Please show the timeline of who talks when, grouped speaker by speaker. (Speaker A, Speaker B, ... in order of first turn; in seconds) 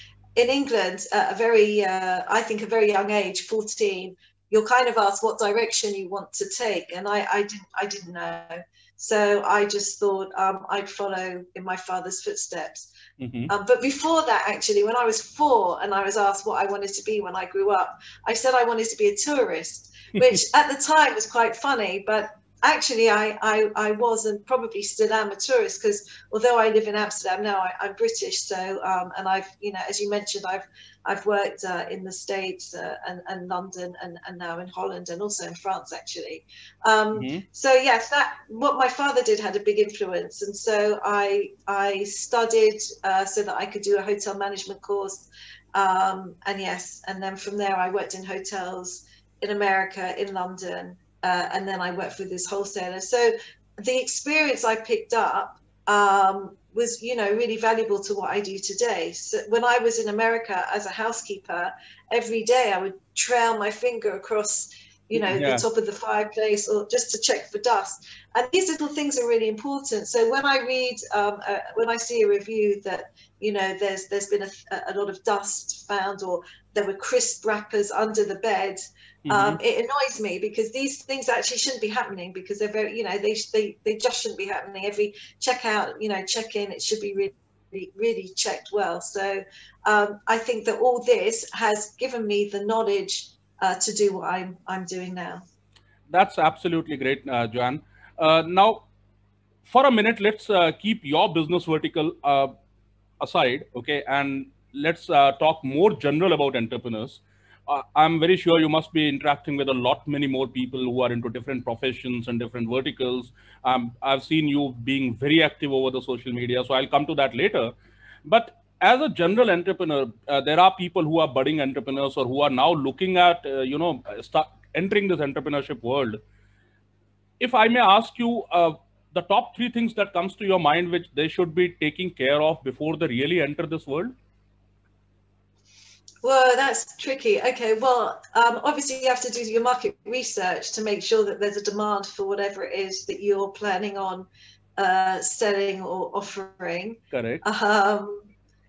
Speaker A: 0.4-12.9, 13.5-95.4, 136.2-148.3
Speaker B: 13.2-13.5, 37.1-37.4, 65.1-65.6, 79.2-79.6, 96.1-98.8, 99.7-102.5, 103.2-117.7, 118.2-126.2, 127.4-134.1, 147.1-147.4